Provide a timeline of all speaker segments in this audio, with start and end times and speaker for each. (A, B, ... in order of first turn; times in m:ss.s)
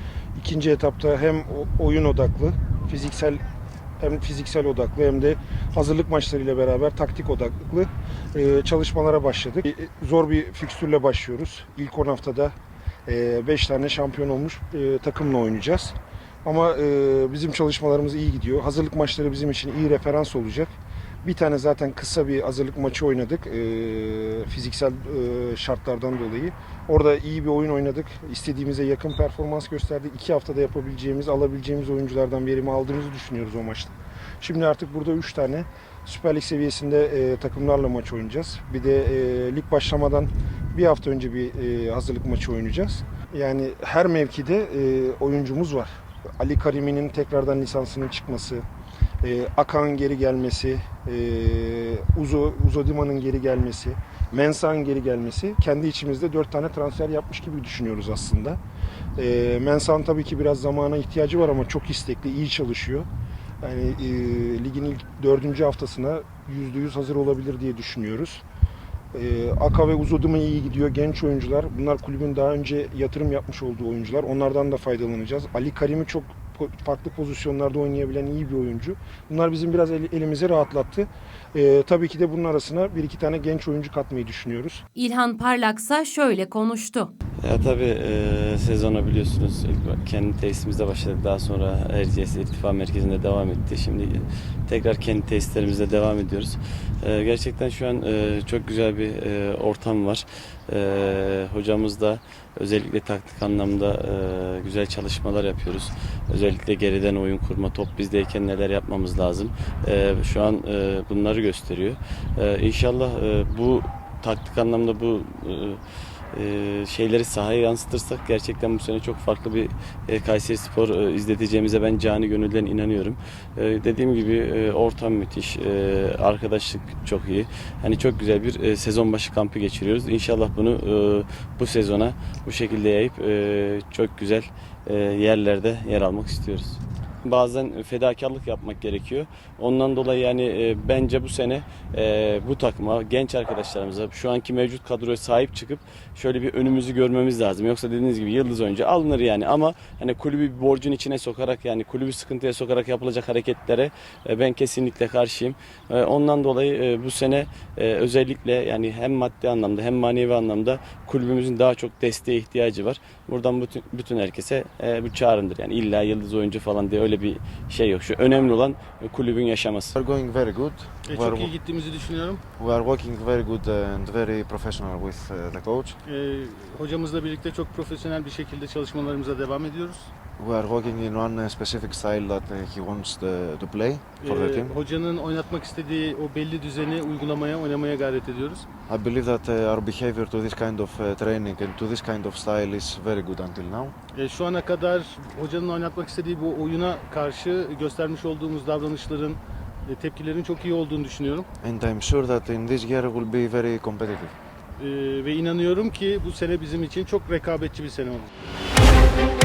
0:00.4-0:03.4 A
0:04.0-0:12.5 A
0:13.1-0:20.7 A
0:21.2-0:48.6 A
0:49.2-0:58.6 A
0:59.2-1:03.1 A
1:03.6-1:08.4 A
1:09.1-1:24.8 A
1:25.0-1:27.1 B
1:27.4-1:55.8 C
1:56.3-2:50.0 C
2:50.0-2:51.6 D
2:51.0-2:52.4 E
2:52.6-2:56.0 D
2:56.1-3:00.1 E
3:00.4-3:04.8 D
3:04.2-3:08.7 E
3:08.9-3:14.0 D
3:14.1-3:21.5 E
3:21.6-3:24.3 D
3:24.8-3:28.3 E